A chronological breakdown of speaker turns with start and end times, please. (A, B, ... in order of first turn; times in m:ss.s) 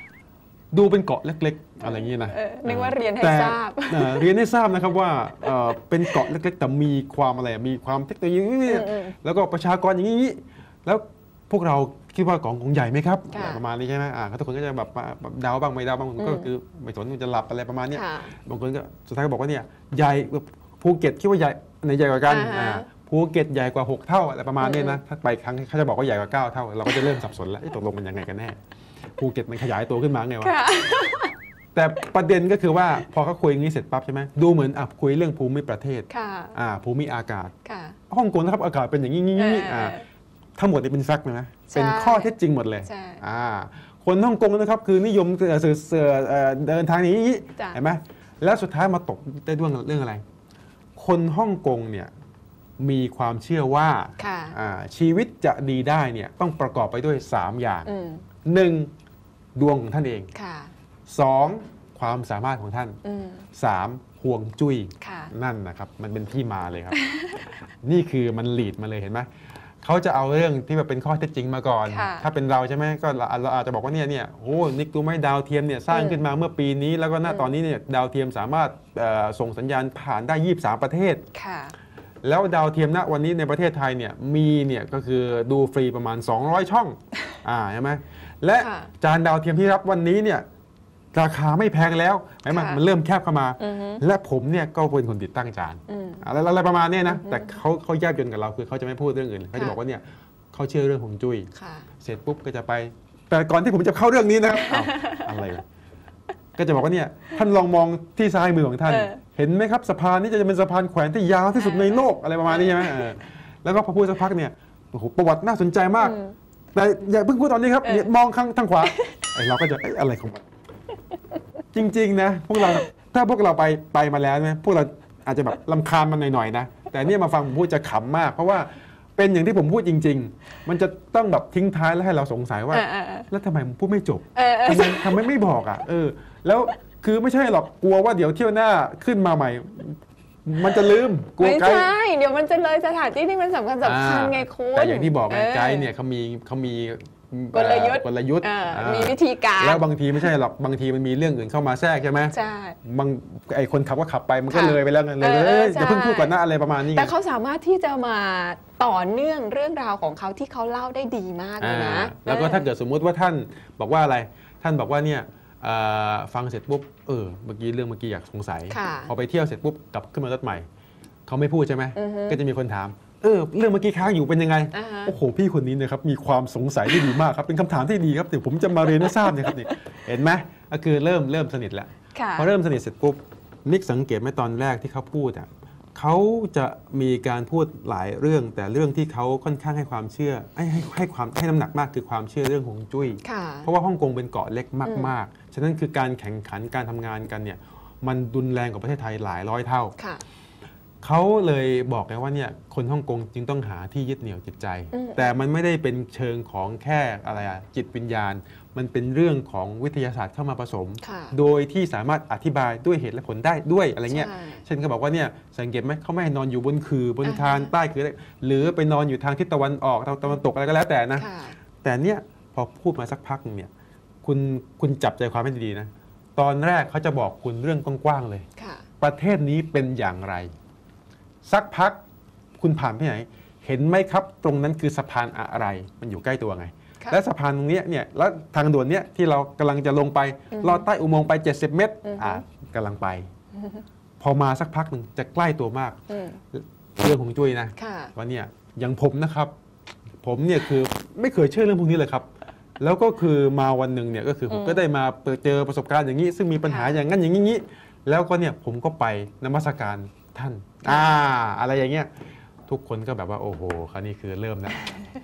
0:00.7-0:28.6 A
0:01.8-0:04.3 B
0:08.7-0:09.1 B
0:13.3-0:13.6 B
0:16.2-0:16.5 B
0:17.9-0:18.3 B
0:22.3-0:22.9 B
0:24.6-0:25.0 B
0:29.2-0:30.6 A
0:30.4-0:31.3 B
0:31.7-0:37.5 A
0:36.1-0:36.5 B
0:37.6-0:38.0 B
0:38.1-0:40.0 A
0:39.3-0:40.0 B
0:40.6-0:50.2 A
0:41.7-0:43.2 B
0:51.0-0:52.1 A
0:52.8-0:57.9 A
0:54.2-0:54.5 B
0:57.8-0:58.2 B
0:58.4-0:58.9 A
0:59.6-1:00.3 A
1:00.3-1:00.7 B
1:01.1-1:03.0 A
1:03.0-1:03.5 B
1:03.6-1:07.0 A
1:05.0-1:05.3 B
1:06.9-1:07.5 B
1:07.8-1:09.3 A
1:09.8-1:21.2 A
1:11.8-1:12.2 B
1:15.9-1:16.2 B
1:17.2-1:17.5 B
1:21.3-1:21.7 B
1:22.2-1:30.4 A
1:28.6-1:28.9 B
1:31.1-1:41.5 A
1:32.5-1:32.8 B
1:33.6-1:34.0 B
1:35.9-1:36.2 B
1:37.1-1:37.6 B
1:41.5-1:41.9 B
1:42.0-1:45.6 A
1:44.5-1:45.3 B
1:46.6-1:56.2 A
1:48.9-1:49.2 B
1:51.6-1:53.1 B
1:56.0-1:56.3 B
1:56.7-2:00.4 A
1:58.8-1:59.2 B
2:01.7-2:21.9 A
2:12.7-2:13.3 B
2:14.3-2:15.2 B
2:21.4-2:25.9 B
2:23.8-2:37.1 A
2:27.5-2:30.3 B
2:32.3-2:32.8 B
2:34.5-2:36.4 B
2:36.9-2:42.7 B
2:41.6-2:50.7 A
2:48.7-2:49.1 B
2:51.3-3:19.9 A
2:52.0-2:52.4 B
2:54.7-2:55.1 B
2:58.8-2:59.7 B
3:02.1-3:02.5 B
3:13.2-3:13.7 B
3:14.8-3:15.1 B
3:21.0-3:41.3 A
3:24.9-3:25.3 B
3:31.0-3:31.3 B
3:34.1-3:34.6 B
3:37.2-3:37.7 B
3:41.2-3:41.6 B
3:41.8-3:43.7 A
3:44.2-3:48.4 A
3:48.6-3:48.8 B
3:49.0-3:50.5 A
3:51.4-3:52.0 A
3:52.6-4:03.3 A
4:00.5-4:00.9 B
4:02.0-4:02.4 B
4:03.5-4:03.8 B
4:04.2-4:06.0 A
4:06.1-4:06.4 B
4:06.5-4:09.5 A
4:07.8-4:08.1 B
4:10.2-4:22.1 A
4:14.5-4:14.8 B
4:16.6-4:17.0 B
4:20.8-4:21.1 B
4:22.7-4:24.9 A
4:24.7-4:25.0 B